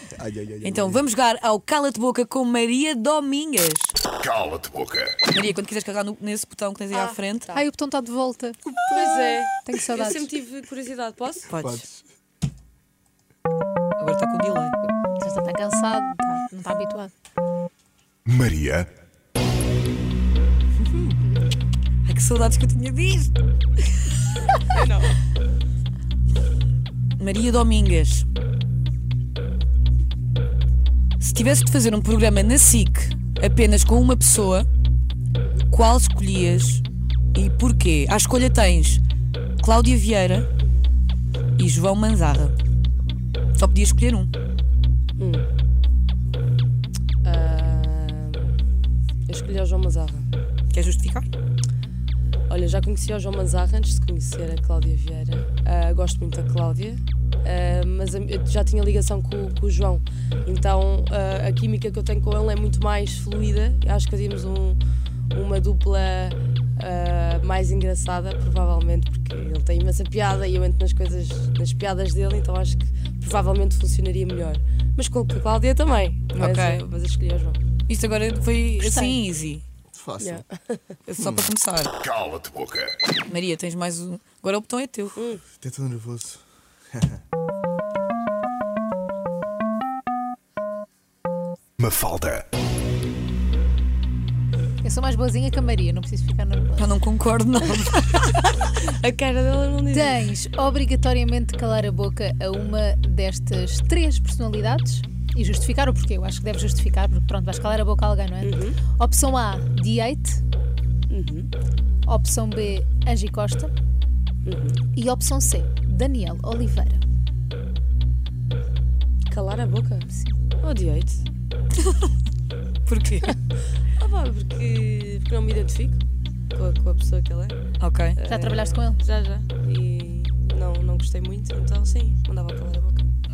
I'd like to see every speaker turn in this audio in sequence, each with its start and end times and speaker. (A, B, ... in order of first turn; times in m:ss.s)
0:00.1-0:01.0 A
0:00.6-0:03.9 B
0:04.2-0:05.2 C
0:05.3-0:07.6 B
0:06.9-0:07.6 D
0:07.5-0:09.1 E
0:08.9-0:11.5 D
0:09.6-0:10.3 E
0:11.5-0:11.8 B
0:11.6-0:12.0 A
0:14.0-0:14.8 B
0:15.2-0:17.1 E
0:18.3-0:18.9 C
0:22.0-0:23.3 B
0:24.7-0:25.2 D
0:27.2-0:28.3 B
0:31.2-0:34.7 B
0:35.7-0:39.0 B
0:39.6-0:40.5 B
0:41.6-0:42.6 B
0:43.6-0:44.3 B
0:45.2-0:45.5 D
0:47.2-0:48.6 D
0:49.3-0:50.3 D
0:50.7-0:51.3 B
0:52.5-1:04.8 D
1:05.3-1:17.6 D
1:16.4-1:16.8 B
1:17.9-1:19.6 B
1:18.8-1:19.2 E
1:19.9-1:20.4 A
1:20.2-1:21.0 D
1:21.1-1:22.0 B
1:21.2-1:21.5 A
1:22.0-1:23.0 C
1:23.3-1:25.2 B
1:25.2-1:25.4 D
1:25.6-1:26.4 A
1:26.9-1:27.2 A
1:31.8-1:32.5 C
1:34.8-1:37.0 E
1:36.8-1:38.4 B
1:38.4-1:40.3 D
1:39.9-1:50.4 E
1:48.4-1:48.8 D
1:51.1-1:51.5 D
1:52.1-1:53.7 E
1:54.5-1:54.8 D
1:55.0-1:57.0 E
1:59.3-2:01.2 D
2:02.9-2:03.4 B
2:04.0-2:06.0 D
2:06.5-2:07.6 D
2:07.8-2:08.2 B
2:08.2-2:13.1 D
2:08.3-2:09.0 E